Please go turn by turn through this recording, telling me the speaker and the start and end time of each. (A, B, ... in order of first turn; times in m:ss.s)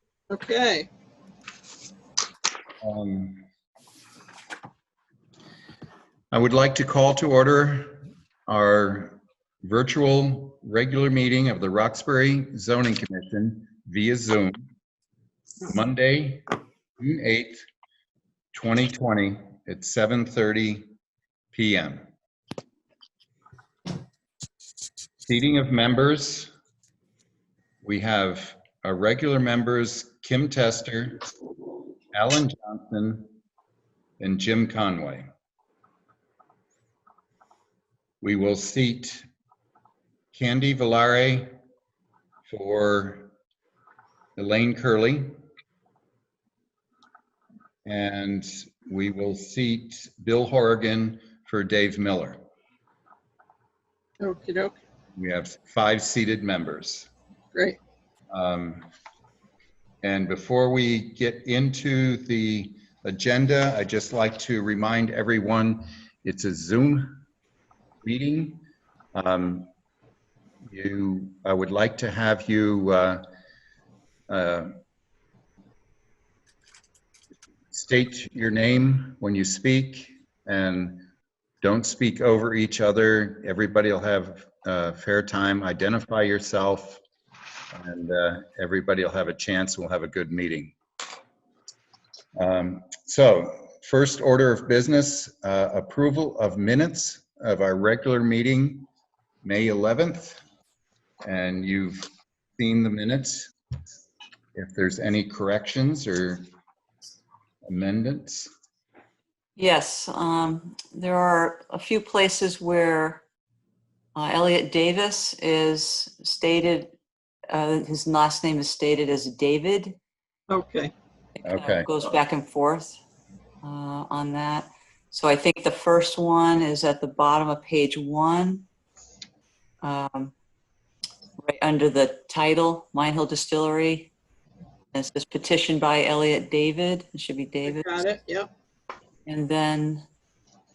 0:00.3-0:00.9 A
0:02.8-0:03.4 B
0:06.3-0:14.7 B
0:15.6-0:16.4 B
0:17.0-0:17.6 B
0:18.5-0:20.8 B
0:21.5-0:22.0 B
0:25.2-0:26.5 B
0:27.8-0:31.2 B
0:32.1-0:33.3 B
0:34.2-0:35.3 B
0:38.2-0:39.2 B
0:40.3-0:41.5 B
0:42.5-0:43.3 B
0:44.4-0:45.3 B
0:47.8-0:52.4 B
0:54.2-0:54.8 A
0:55.2-0:57.1 B
0:57.5-0:57.8 A
0:58.3-0:58.9 B
1:00.0-1:07.2 B
1:08.0-1:08.6 B
1:09.1-1:09.7 B
1:10.7-1:13.2 B
1:14.3-1:14.7 B
1:17.7-1:21.0 B
1:21.6-1:27.0 B
1:27.7-1:30.7 B
1:32.4-1:38.9 B
1:39.4-1:40.4 B
1:41.2-1:43.5 B
1:44.5-1:46.4 B
1:47.7-1:48.5 B
1:49.6-1:53.2 C
1:54.1-1:56.9 C
1:57.5-2:00.0 C
2:00.5-2:00.9 A
2:01.4-2:03.0 C
2:01.4-2:01.9 B
2:03.6-2:08.6 C
2:09.8-2:10.3 C
2:11.4-2:14.1 C
2:14.9-2:18.0 C
2:17.6-2:18.5 A
2:19.2-2:20.0 C